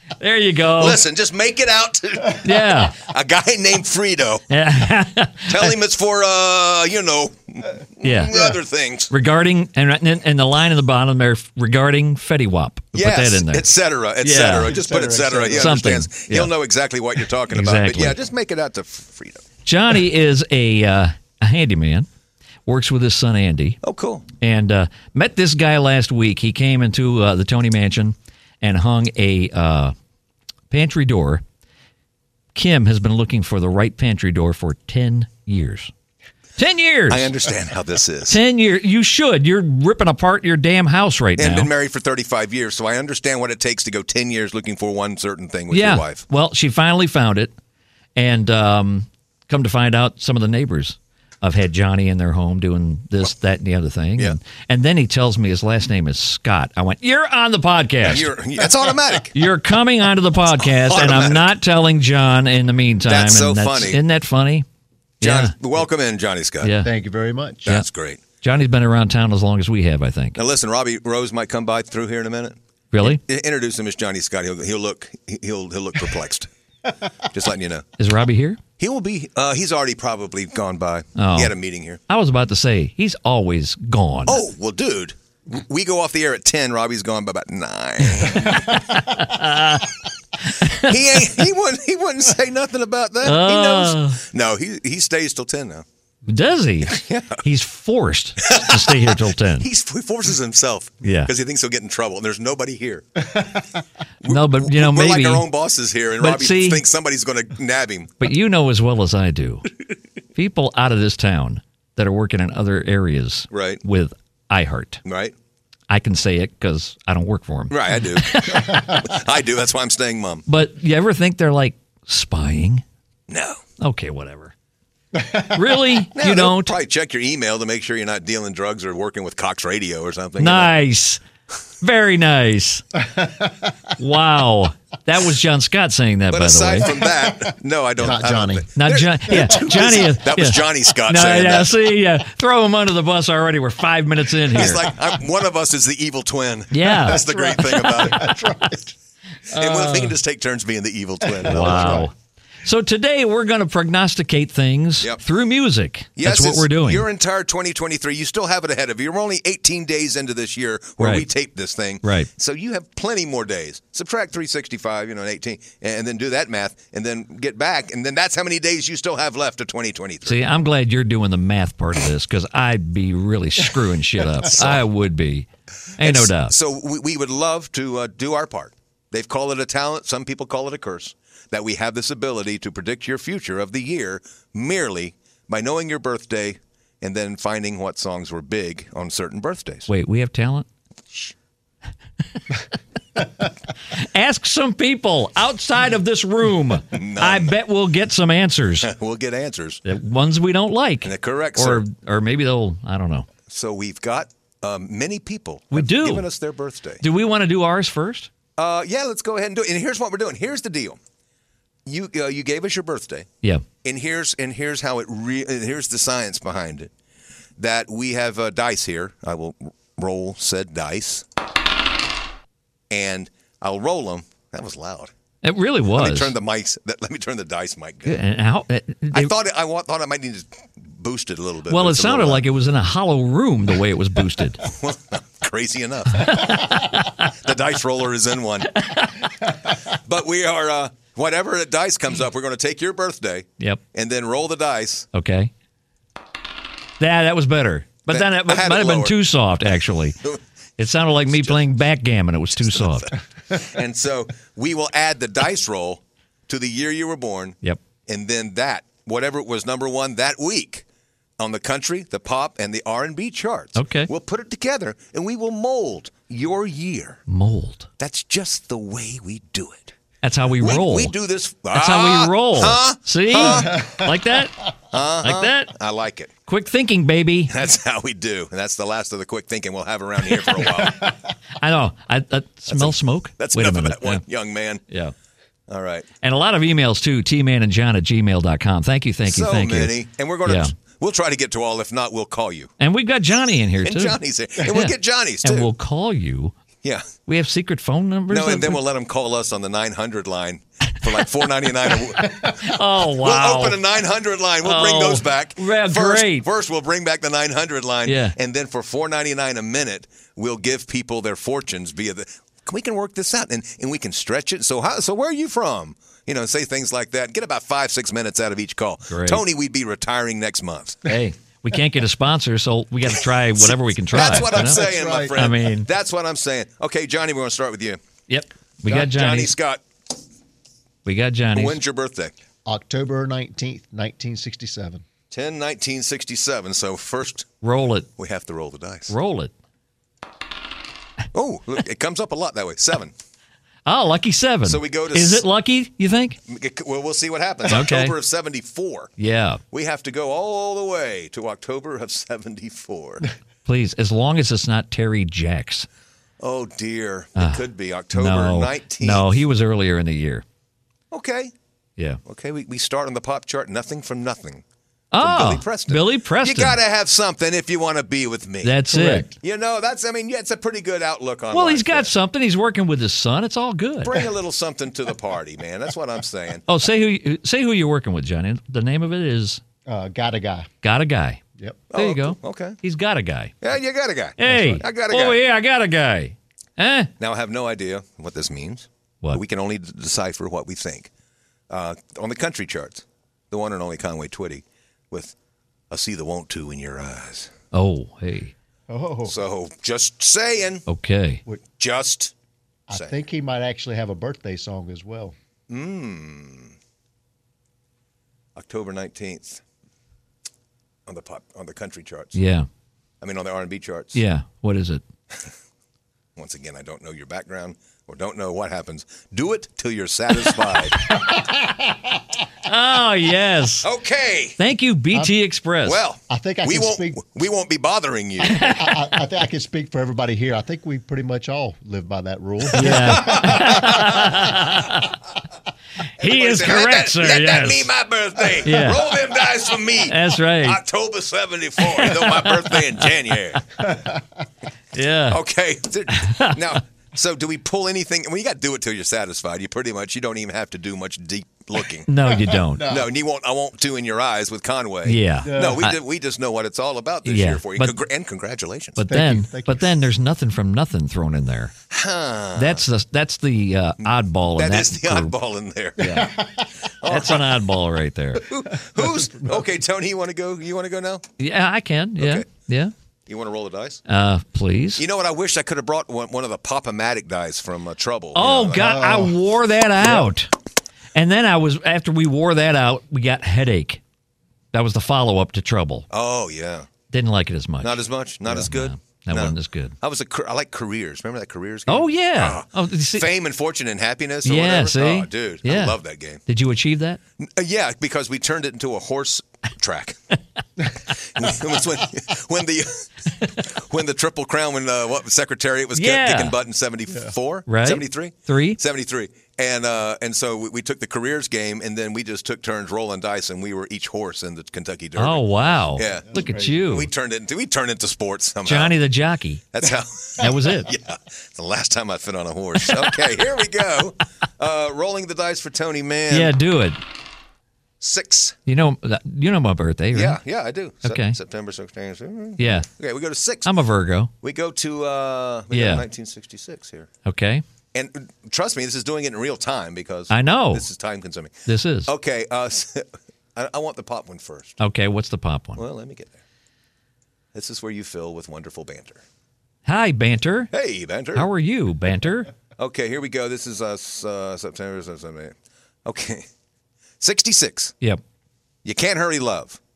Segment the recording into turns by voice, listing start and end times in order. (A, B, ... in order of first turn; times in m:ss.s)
0:00.2-0:01.0 A
0:00.8-0:04.4 B
0:02.4-0:03.0 A
0:04.5-0:05.7 A
0:05.4-0:09.1 B
0:08.0-0:08.4 A
0:09.1-0:14.7 A
0:12.9-0:19.4 B
0:14.6-0:15.8 C
0:15.6-0:16.5 A
0:17.5-0:18.2 A
0:19.6-0:22.1 A
0:22.7-0:23.8 A
0:23.8-0:24.3 B
0:24.4-0:29.9 A
0:30.7-0:31.4 A
0:32.6-0:35.9 A
0:36.6-0:37.3 A
0:37.1-0:38.4 B
0:38.3-0:41.7 A
0:41.4-0:46.2 B
0:45.7-0:47.5 A
0:48.2-0:58.3 A
0:58.0-0:59.4 B
0:59.3-1:04.7 A
1:00.6-1:01.5 B
1:03.0-1:04.0 B
1:05.2-1:05.6 A
1:05.2-1:06.7 B
1:06.6-1:06.9 A
1:06.8-1:07.7 C
1:07.6-1:08.2 B
1:08.4-1:10.4 A
1:10.4-1:16.5 B
1:12.9-1:13.2 A
1:17.2-1:17.9 B
1:18.0-1:18.6 A
1:18.8-1:22.0 B
1:21.2-1:21.5 A
1:22.1-1:24.4 A
1:24.3-1:28.8 B
1:28.3-1:29.9 A
1:30.5-1:31.0 A
1:30.7-1:35.8 B
1:33.2-1:34.2 A
1:36.3-1:39.7 A
1:36.9-1:37.4 B
1:38.4-1:43.6 B
1:41.0-1:41.3 A
1:44.2-1:48.2 B
1:44.2-1:45.5 A
1:46.2-1:46.8 A
1:48.2-1:49.7 A
1:50.4-1:55.0 A
1:53.5-1:53.8 B
1:55.0-1:55.4 B
1:55.9-1:58.8 A
1:57.7-2:00.5 B
2:00.5-2:02.8 A
2:03.3-2:03.6 B
2:03.8-2:04.5 A
2:05.4-2:06.8 A
2:06.1-2:10.7 B
2:10.4-2:11.2 A
2:11.8-2:12.8 A
2:13.2-2:13.5 C
2:14.0-2:17.0 A
2:16.3-2:21.8 B
2:18.0-2:18.7 C
2:18.8-2:24.9 A
2:24.5-2:28.4 B
2:26.7-2:28.7 A
2:27.0-2:28.8 C
2:29.5-2:30.1 A
2:29.5-2:32.1 B
2:31.3-2:32.1 C
2:31.4-2:37.0 A
2:36.2-2:50.4 B
2:41.0-2:41.3 A
2:42.0-2:42.3 A
2:50.2-2:56.5 A
2:54.4-2:54.8 B
2:56.0-3:09.9 B
3:09.9-3:10.7 A
3:13.9-3:18.9 A
3:16.9-3:17.6 B
3:18.8-3:19.8 B
3:19.8-3:23.3 A
3:21.0-3:21.8 B
3:23.4-3:27.0 B
3:25.7-3:26.3 A
3:27.0-3:28.3 A
3:28.6-3:31.0 B
3:31.8-3:33.3 B
3:33.8-3:36.9 B
3:37.6-3:41.3 B
3:42.9-3:45.1 B
3:45.4-3:46.4 A
3:45.9-3:48.2 B
3:48.1-3:49.3 A
3:49.1-3:52.5 B
3:51.7-3:54.6 A
3:54.6-3:58.8 B
3:56.2-3:57.2 A
3:58.8-3:59.1 A
3:59.9-4:05.1 B
4:05.1-4:05.5 A
4:07.0-4:10.2 A
4:08.1-4:09.2 B
4:10.8-4:13.2 A
4:11.3-4:11.7 B
4:12.6-4:20.9 B
4:21.4-4:27.2 B
4:23.8-4:24.1 A
4:27.3-4:27.9 A
4:28.0-4:30.0 B
4:30.2-4:31.1 A
4:30.6-4:33.9 B
4:31.7-4:34.6 A
4:34.9-4:36.3 B
4:35.2-4:35.7 A
4:36.5-4:37.5 A
4:37.5-4:41.1 B
4:41.6-4:44.2 A
4:42.7-4:44.8 B
4:44.9-4:45.1 A
4:45.7-4:46.1 B
4:46.2-4:50.7 A
4:49.3-4:52.7 B
4:52.8-4:56.6 A
4:53.8-4:55.7 B
4:56.8-4:57.1 B
4:57.3-4:58.8 A
4:58.3-5:21.0 B
5:02.5-5:03.8 A
5:04.6-5:06.5 A
5:08.1-5:08.4 A
5:19.1-5:19.4 A
5:21.0-5:25.9 A
5:23.6-5:28.0 B
5:24.2-5:25.4 C
5:28.3-5:29.5 A
5:28.8-5:29.8 B
5:31.0-5:31.8 A
5:31.5-5:32.3 B
5:32.7-5:35.0 C
5:35.3-5:37.5 B
5:37.6-5:38.1 A
5:38.2-5:39.1 B
5:39.1-5:39.5 A
5:41.3-5:43.1 B
5:43.9-5:46.4 A
5:44.6-5:45.4 B
5:46.5-5:49.1 B
5:47.7-5:48.2 A
5:49.2-5:49.6 A
5:49.7-5:53.3 B
5:53.7-5:55.9 A
5:56.4-5:59.3 B
5:57.4-6:00.4 A
6:01.1-6:01.5 B
6:02.2-6:04.6 B
6:05.1-6:06.8 A
6:05.2-6:08.8 B
6:08.6-6:09.3 A
6:08.9-6:09.4 C
6:09.4-6:12.1 B
6:11.5-6:14.3 A
6:14.0-6:16.6 B
6:16.7-6:19.6 A
6:19.9-6:20.7 C
6:20.8-6:21.4 A
6:21.9-6:22.8 B
6:22.0-6:23.6 A
6:23.6-6:25.4 B
6:24.4-6:27.1 A
6:24.5-6:24.8 C
6:27.2-6:31.1 B
6:31.7-6:35.4 B
6:35.9-6:37.5 B
6:37.7-6:38.6 A
6:38.9-6:39.4 C
6:39.2-6:40.9 B
6:40.9-6:41.4 A
6:41.8-6:42.3 B
6:42.9-6:45.4 C
6:45.7-6:46.8 B
6:48.6-6:49.6 B
6:51.1-6:52.4 B
6:52.4-6:52.7 A
6:53.2-6:54.2 B
6:54.2-6:55.0 A
6:56.4-7:01.1 B
7:01.2-7:02.0 C
7:02.6-7:03.9 A
7:03.8-7:04.6 B
7:04.6-7:06.0 A
7:05.8-7:08.6 B
7:06.3-7:07.3 C
7:08.4-7:09.0 A
7:08.6-7:14.3 C
7:12.7-7:15.2 A
7:12.7-7:14.6 B
7:16.2-7:17.9 A
7:16.2-7:23.8 B
7:18.6-7:19.2 A
7:20.0-7:20.8 A
7:21.8-7:23.1 A
7:23.8-7:24.2 C
7:24.9-7:25.4 A
7:25.3-7:32.2 B
7:26.1-7:26.6 A
7:32.1-7:32.8 A
7:32.3-7:33.1 C
7:32.8-7:39.0 B
7:35.0-7:36.0 A
7:35.4-7:35.9 C
7:37.2-7:38.0 A
7:39.0-7:41.7 A
7:39.0-7:39.9 C
7:41.9-7:42.8 B
7:42.6-7:45.3 A
7:44.0-7:46.3 B
7:46.0-7:46.3 A
7:46.0-7:46.7 C
7:47.0-7:47.6 B
7:47.1-7:48.6 A
7:48.4-7:51.3 B
7:49.0-7:49.5 C
7:51.4-7:52.9 A
7:52.2-7:52.5 B
7:53.3-7:54.0 B
7:54.1-7:55.0 A
7:55.0-7:59.0 B
7:58.4-8:00.5 A
7:58.8-7:59.4 C
8:00.0-8:00.3 B
8:01.2-8:04.0 A
8:04.7-8:06.1 A
8:06.1-8:06.9 B
8:07.1-8:10.0 A
8:07.8-8:16.4 B
8:11.9-8:13.3 A
8:14.4-8:17.2 A
8:17.4-8:20.2 B
8:21.1-8:39.0 B
8:25.9-8:26.6 A
8:27.7-8:28.8 A
8:35.2-8:37.1 A
8:36.3-8:36.8 C
8:38.6-8:39.7 A
8:39.7-8:46.6 B
8:40.4-8:40.9 A
8:46.3-8:47.0 A
8:48.0-8:48.6 B
8:48.7-8:50.4 A
8:50.1-8:53.7 B
8:51.0-8:51.4 A
8:52.6-8:52.9 A
8:53.6-8:54.3 A
8:54.4-8:57.1 B
8:55.7-8:56.0 A
8:57.2-8:57.6 A
8:57.9-9:04.8 B
9:00.3-9:00.8 A
9:01.7-9:02.1 A
9:04.8-9:05.8 A
9:05.8-9:06.4 B
9:07.5-9:09.2 B
9:09.9-9:10.7 A
9:10.7-9:11.5 B
9:11.3-9:12.5 A
9:12.8-9:16.5 B
9:17.2-9:18.0 B
9:18.8-9:19.8 B